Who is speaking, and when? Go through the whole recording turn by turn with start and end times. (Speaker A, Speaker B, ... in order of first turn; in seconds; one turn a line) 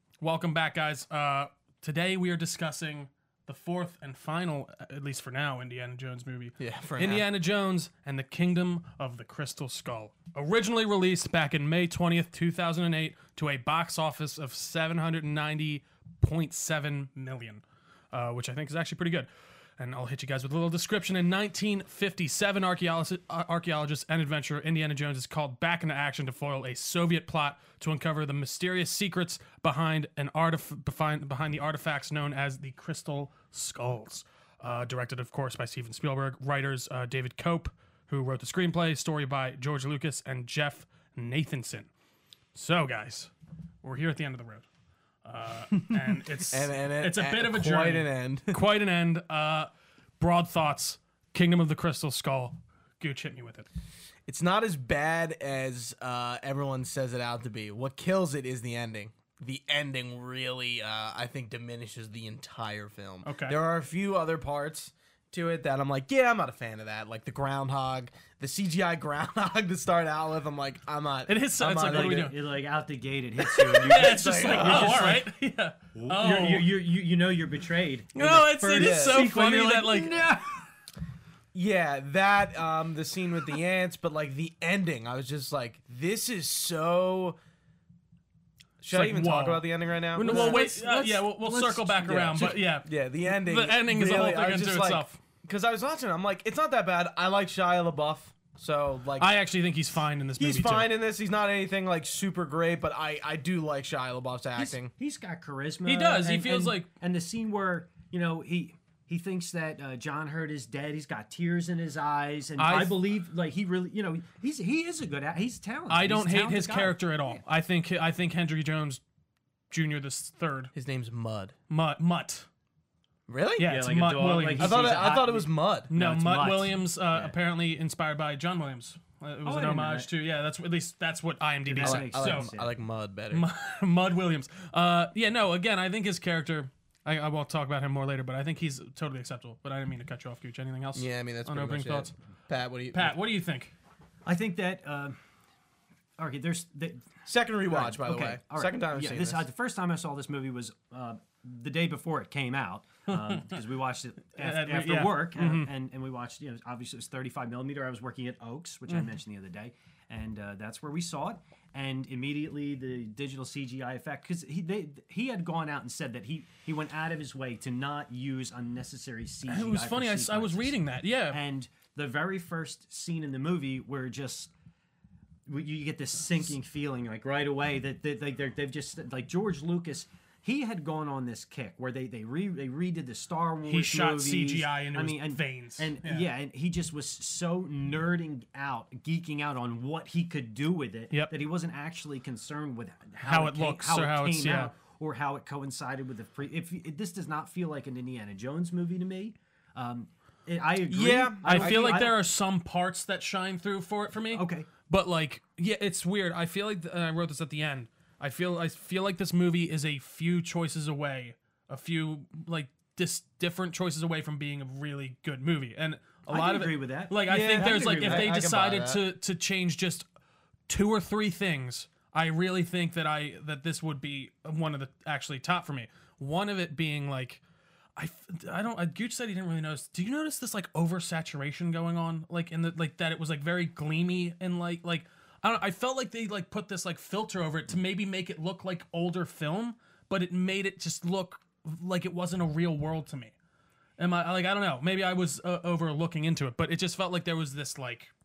Speaker A: 0.2-41.9
Speaker B: 6.6-7.2
Speaker A: 42.5-43.3
Speaker A: 43.8-44.6
Speaker A: 45.2-49.7
Speaker B: 46.5-48.6
Speaker A: 50.2-53.7
Speaker B: 54.2-72.3
Speaker A: 63.2-63.5
Speaker A: 71.3-72.4
Speaker C: 71.8-75.2
Speaker B: 73.5-75.2
Speaker A: 73.5-76.7
Speaker C: 75.9-80.7
Speaker A: 78.1-80.3
Speaker B: 78.7-79.3
Speaker B: 81.5-87.4
Speaker B: 88.8-90.6
Speaker A: 88.9-95.2
Speaker C: 90.2-92.5
Speaker B: 92.0-99.3
Speaker A: 99.2-100.9
Speaker B: 100.4-104.9
Speaker C: 104.5-117.4
Speaker A: 105.8-106.9
Speaker A: 112.6-113.0
Speaker A: 115.9-119.0
Speaker A: 119.7-120.7
Speaker B: 120.7-121.5
Speaker A: 121.7-122.5
Speaker B: 123.3-123.7
Speaker A: 123.6-125.1
Speaker C: 123.6-127.3
Speaker B: 124.5-125.9
Speaker A: 125.9-132.5
Speaker C: 129.4-130.1
Speaker C: 131.6-132.7
Speaker B: 131.8-133.5
Speaker A: 133.3-142.1
Speaker B: 140.9-143.2
Speaker A: 142.9-143.7
Speaker C: 144.2-145.2
Speaker C: 146.2-147.1
Speaker B: 147.2-149.4
Speaker C: 147.7-170.8
Speaker A: 153.1-153.6
Speaker A: 154.4-155.7
Speaker A: 169.5-171.4
Speaker C: 171.3-174.5
Speaker C: 175.5-202.2
Speaker A: 183.7-186.3
Speaker A: 193.2-194.7
Speaker B: 200.9-202.0
Speaker A: 201.4-220.1
Speaker C: 204.3-204.7
Speaker C: 216.3-218.3
Speaker B: 217.2-219.0
Speaker A: 220.7-227.4
Speaker A: 228.0-243.3
Speaker A: 244.0-248.1